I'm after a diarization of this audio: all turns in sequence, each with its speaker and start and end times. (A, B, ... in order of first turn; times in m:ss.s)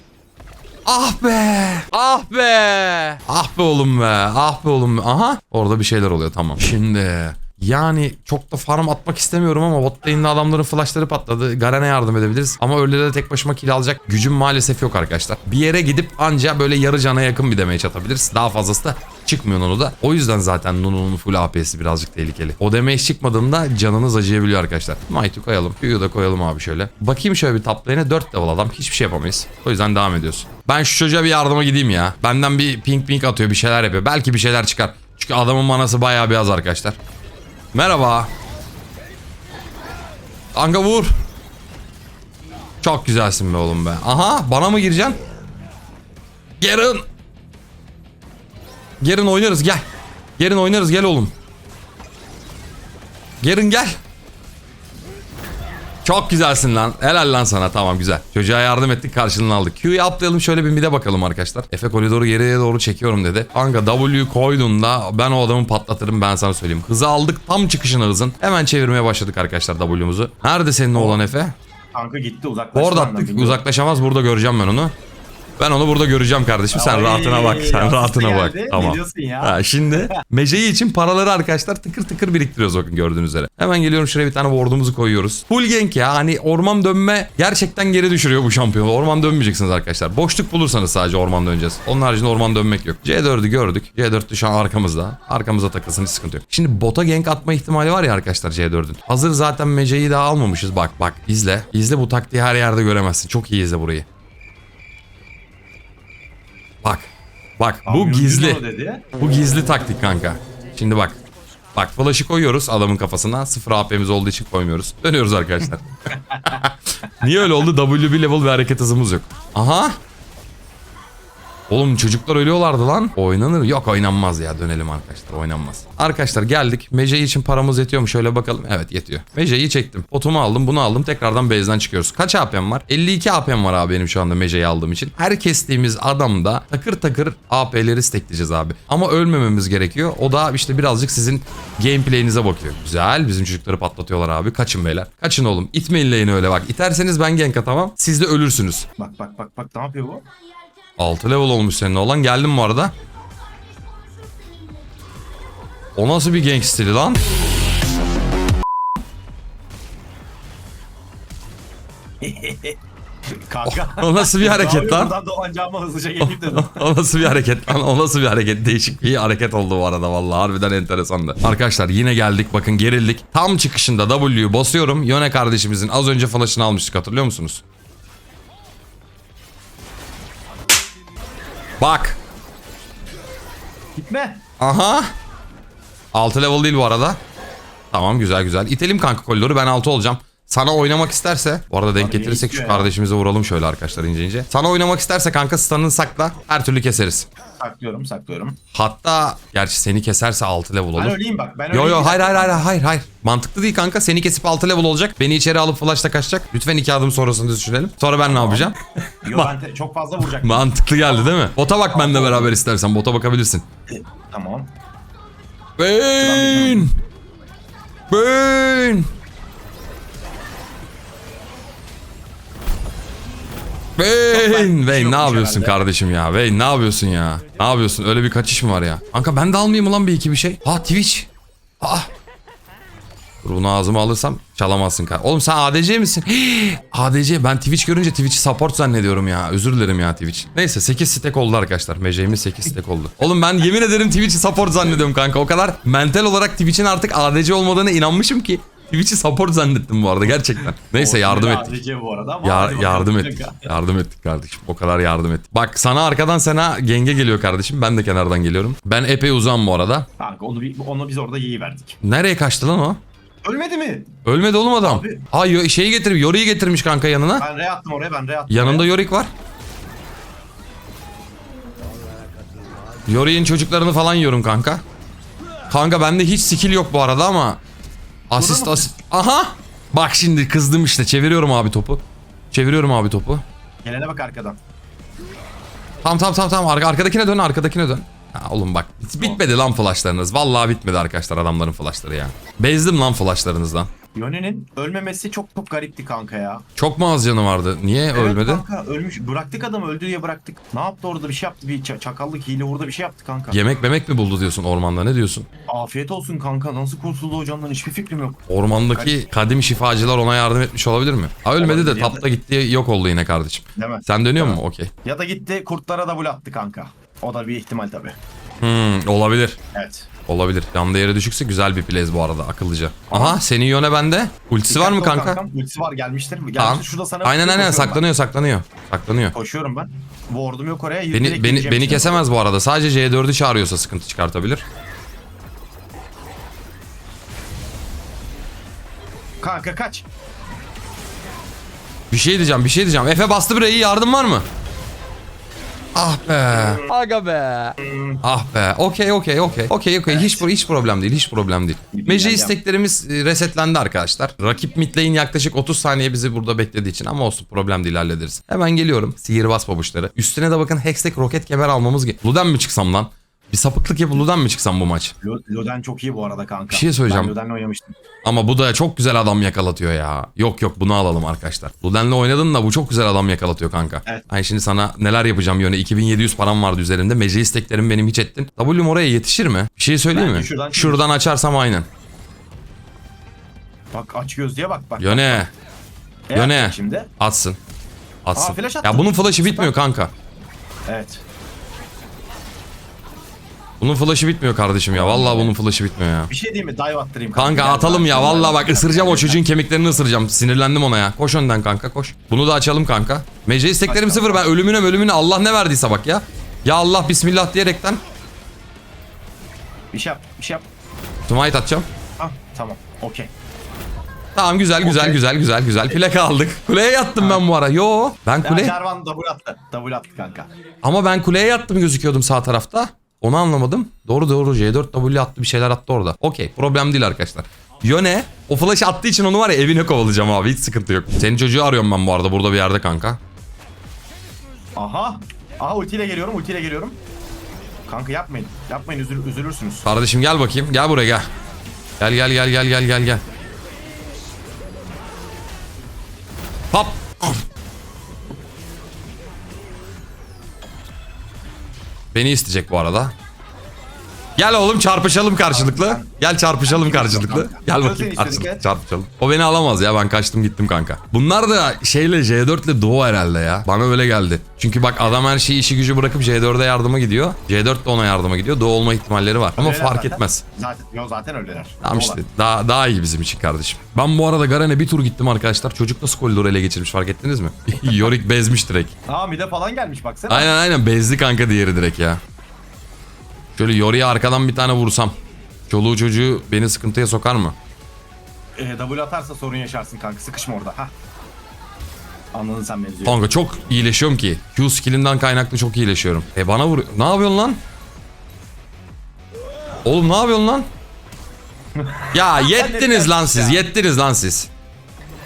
0:00.9-0:37.0 A
0:37.7-0:38.3 A
0:40.5-0:41.1 A
0:42.8-0:45.2 A
0:46.6-0:47.0 A
0:49.0-0:49.8 A
0:50.4-0:51.3 A
0:53.4-0:54.0 A
0:56.0-1:11.6 A
1:10.9-1:11.2 B
1:11.9-1:13.6 B
1:12.8-1:14.9 A
1:15.6-1:44.0 A
1:16.7-1:20.2 B
1:47.6-1:48.6 A
1:47.8-1:49.1 B
1:49.2-1:51.2 A
1:51.8-2:00.0 A
2:01.7-2:28.9 A
2:29.0-2:30.2 B
2:31.0-2:32.9 A
2:36.0-2:37.2 A
2:42.2-2:42.8 B
2:43.5-2:46.9 B
2:43.6-2:45.1 A
2:46.2-2:57.6 A
3:01.8-3:02.2 A
3:04.0-3:04.4 B
3:04.6-3:05.1 A
3:06.1-3:07.2 A
3:07.9-3:17.3 A
3:12.0-3:12.9 B
3:17.6-3:18.6 B
3:18.7-3:21.2 A
3:21.0-3:22.7 B
3:21.7-3:29.6 A
3:28.2-3:28.7 B
3:29.2-3:31.3 B
3:30.2-3:33.6 A
3:31.9-3:32.5 B
3:33.9-3:34.7 B
3:35.8-3:36.9 A
3:36.1-3:36.9 B
3:38.1-3:39.1 A
3:44.0-3:51.3 A
3:44.3-3:45.8 B
3:51.8-3:52.1 A
3:53.4-4:11.8 A
4:10.9-4:13.7 B
4:12.4-4:20.1 A
4:20.2-4:22.0 B
4:22.0-4:23.0 A
4:23.4-4:24.2 B
4:24.2-4:27.5 A
4:24.8-4:25.3 B
4:27.4-4:28.9 B
4:28.5-4:29.3 A
4:33.1-4:34.8 A
4:35.7-4:37.6 A
4:38.3-4:43.4 A
4:38.4-4:38.9 B
4:43.8-4:44.6 B
4:46.0-4:53.9 A
4:54.2-4:56.6 B
4:56.8-4:58.6 A
4:58.1-5:03.6 B
5:03.5-5:05.5 A
5:05.7-5:08.4 B
5:08.5-5:14.9 A
5:08.9-5:09.2 B
5:11.6-5:12.3 B
5:13.8-5:18.2 B
5:18.6-5:19.6 A
5:19.7-5:20.1 B
5:20.3-5:25.4 A
5:23.1-5:23.4 B
5:24.7-5:28.0 B
5:26.6-5:29.4 A
5:29.3-5:32.2 B
5:31.1-5:34.6 A
5:39.4-5:40.1 B
5:42.1-5:44.5 A
5:46.0-6:05.1 A
5:46.5-5:46.8 B
5:47.8-5:48.2 B
5:50.1-5:50.5 B
5:51.9-5:52.6 B
6:05.2-6:08.0 B
6:06.7-6:07.4 A
6:08.2-6:21.9 A
6:20.1-6:21.1 B
6:23.9-6:25.5 B
6:25.0-6:25.5 A
6:26.3-6:27.1 B
6:26.4-6:27.6 A
6:28.2-6:30.1 A
6:28.4-6:29.8 B
6:30.9-6:31.2 B
6:33.8-6:36.3 A
6:34.9-6:35.6 B
6:36.3-6:39.4 B
6:37.4-6:48.0 A
6:43.9-6:44.5 B
6:49.9-6:50.6 B
6:51.3-6:51.9 A
6:52.2-6:53.3 B
6:54.4-6:58.8 A
6:54.8-6:55.2 B
6:57.2-6:57.4 B
6:58.4-7:00.5 B
7:00.8-7:13.2 A
7:14.8-7:17.0 B
7:17.9-7:19.9 B
7:19.8-7:21.3 A
7:22.0-7:23.2 A
7:26.7-7:27.4 A
7:32.1-7:33.1 A
7:34.4-7:50.4 A
7:35.4-7:36.1 B
7:36.7-7:38.6 B
7:49.6-7:52.2 B
7:51.8-7:58.9 A
7:59.1-8:00.5 B
8:00.3-8:02.2 A
8:03.6-8:05.1 A
8:05.7-8:07.6 A
8:08.6-8:10.9 B
8:12.3-8:13.2 B
8:13.0-8:17.6 A
8:19.8-8:20.7 A
8:21.8-8:23.6 B
8:22.1-8:24.5 A